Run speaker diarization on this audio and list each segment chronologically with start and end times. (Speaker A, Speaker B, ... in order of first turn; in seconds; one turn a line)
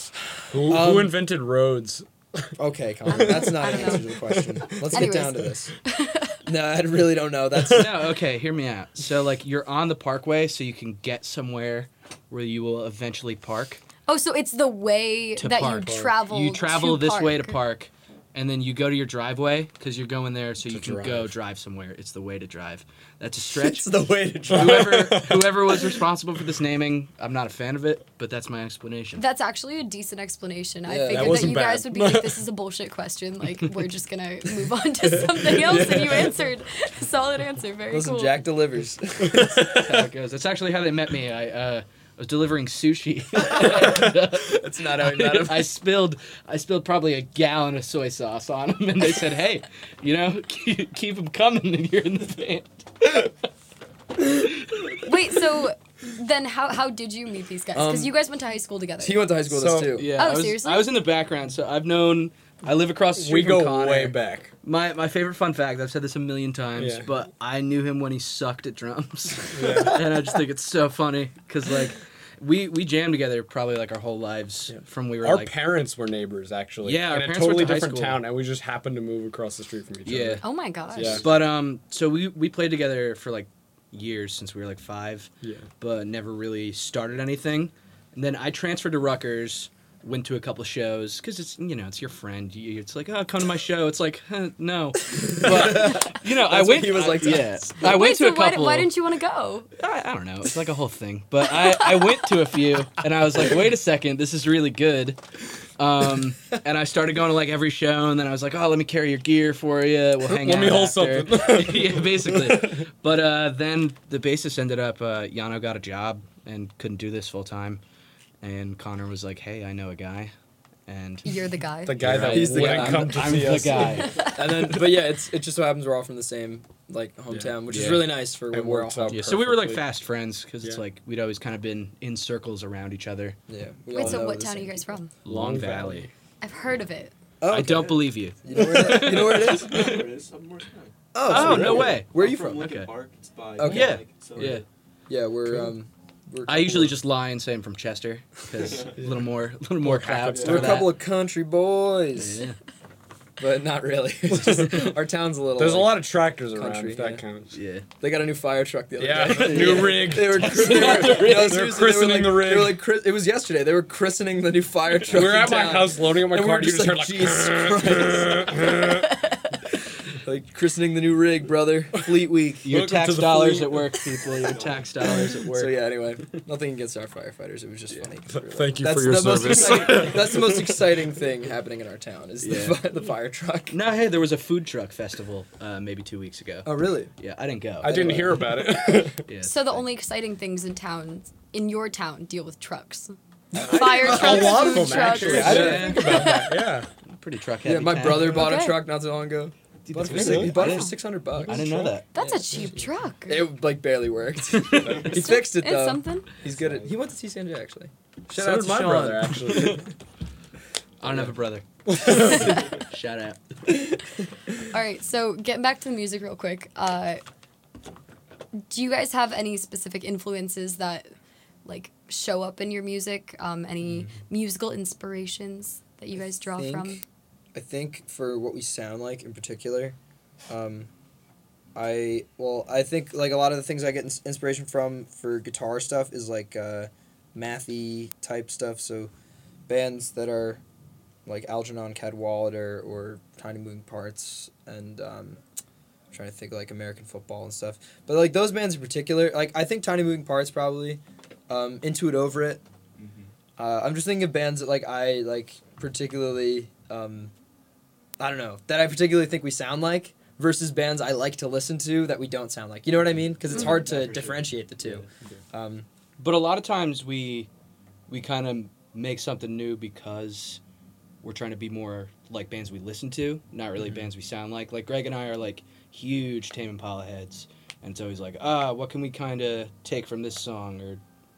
Speaker A: 0.5-2.5
Speaker B: 0.5-1.1
Speaker B: 2.6-5.7
Speaker C: 3.1-4.1
Speaker A: 3.1-5.1
Speaker C: 4.9-6.4
Speaker B: 6.5-7.9
Speaker D: 7.7-13.8
Speaker C: 14.1-17.6
Speaker D: 15.4-23.9
Speaker A: 15.8-16.1
Speaker A: 20.6-21.3
Speaker B: 23.6-25.5
Speaker D: 24.5-29.2
Speaker A: 24.5-25.5
Speaker C: 29.2-38.4
Speaker B: 30.9-31.5
Speaker A: 31.1-32.4
Speaker B: 35.6-36.4
Speaker B: 37.9-40.1
Speaker A: 39.2-40.0
Speaker D: 39.7-53.3
Speaker B: 43.5-45.7
Speaker D: 54.2-55.1
Speaker C: 55.0-59.3
Speaker B: 57.7-58.1
Speaker B: 59.0-60.1
Speaker A: 59.5-59.9
Speaker D: 59.9-75.5
Speaker C: 60.1-60.9
Speaker A: 63.1-64.5
Speaker A: 66.8-67.1
Speaker A: 69.5-70.2
Speaker A: 74.7-80.4
Speaker D: 76.8-78.2
Speaker D: 80.0-80.4
Speaker C: 80.4-81.2
Speaker A: 80.9-81.4
Speaker D: 81.1-98.9
Speaker A: 85.4-85.7
Speaker B: 95.2-97.8
Speaker C: 97.8-99.7
Speaker D: 99.8-105.2
Speaker C: 101.6-102.1
Speaker D: 105.8-117.8
Speaker A: 110.2-112.9
Speaker D: 118.4-120.3
Speaker D: 120.9-121.4
Speaker C: 121.2-122.0
Speaker A: 121.8-124.2
Speaker D: 122.0-124.9
Speaker B: 122.2-129.2
Speaker C: 124.1-124.3
Speaker A: 127.3-129.8
Speaker D: 127.7-128.1
Speaker D: 129.1-133.4
Speaker B: 133.5-135.0
Speaker C: 133.9-135.1
Speaker D: 135.2-136.1
Speaker A: 135.2-136.1
Speaker C: 136.4-137.1
Speaker B: 137.4-140.0
Speaker D: 137.5-140.1
Speaker E: 137.7-138.0
Speaker E: 138.9-144.7
Speaker B: 141.1-142.7
Speaker D: 141.2-142.9
Speaker B: 143.6-144.0
Speaker D: 143.6-144.6
Speaker B: 145.1-146.9
Speaker A: 145.5-145.7
Speaker D: 146.5-150.9
Speaker E: 148.6-148.9
Speaker A: 149.8-150.9
Speaker B: 150.4-152.4
Speaker D: 152.2-152.6
Speaker B: 153.4-157.2
Speaker A: 154.3-154.9
Speaker A: 155.6-157.6
Speaker D: 157.5-157.8
Speaker B: 158.0-168.9
Speaker A: 159.0-162.8
Speaker D: 159.2-161.8
Speaker A: 165.1-169.2
Speaker B: 170.2-172.7
Speaker D: 172.6-175.7
Speaker A: 172.7-174.0
Speaker E: 174.2-175.2
Speaker B: 175.4-183.8
Speaker A: 178.3-180.9
Speaker D: 182.4-182.8
Speaker D: 183.7-188.3
Speaker B: 186.6-187.1
Speaker A: 187.8-189.2
Speaker B: 187.8-188.6
Speaker D: 189.2-189.8
Speaker C: 189.4-196.7
Speaker B: 193.5-196.2
Speaker A: 193.5-196.9
Speaker D: 195.0-196.4
Speaker D: 197.0-198.5
Speaker B: 197.6-209.8
Speaker C: 198.3-198.8
Speaker E: 199.8-200.5
Speaker D: 200.0-202.1
Speaker A: 200.1-200.8
Speaker C: 200.5-200.9
Speaker A: 201.3-202.0
Speaker C: 202.1-203.5
Speaker D: 204.6-205.0
Speaker A: 204.8-205.1
Speaker C: 205.0-206.3
Speaker A: 208.3-209.9
Speaker D: 211.0-213.4
Speaker A: 211.9-212.5
Speaker C: 212.2-212.7
Speaker C: 214.7-217.2
Speaker C: 218.5-221.1
Speaker C: 221.6-227.0
Speaker B: 226.5-227.0
Speaker B: 227.5-229.9
Speaker B: 230.5-230.9
Speaker B: 231.7-239.1
Speaker B: 239.7-240.6
Speaker B: 241.2-245.4
Speaker B: 246.1-252.6
Speaker E: 253.0-253.3
Speaker B: 253.6-257.3
Speaker B: 258.2-265.9
Speaker E: 263.4-265.1
Speaker C: 263.5-263.8
Speaker D: 266.2-267.5
Speaker D: 268.1-270.6
Speaker D: 271.2-281.0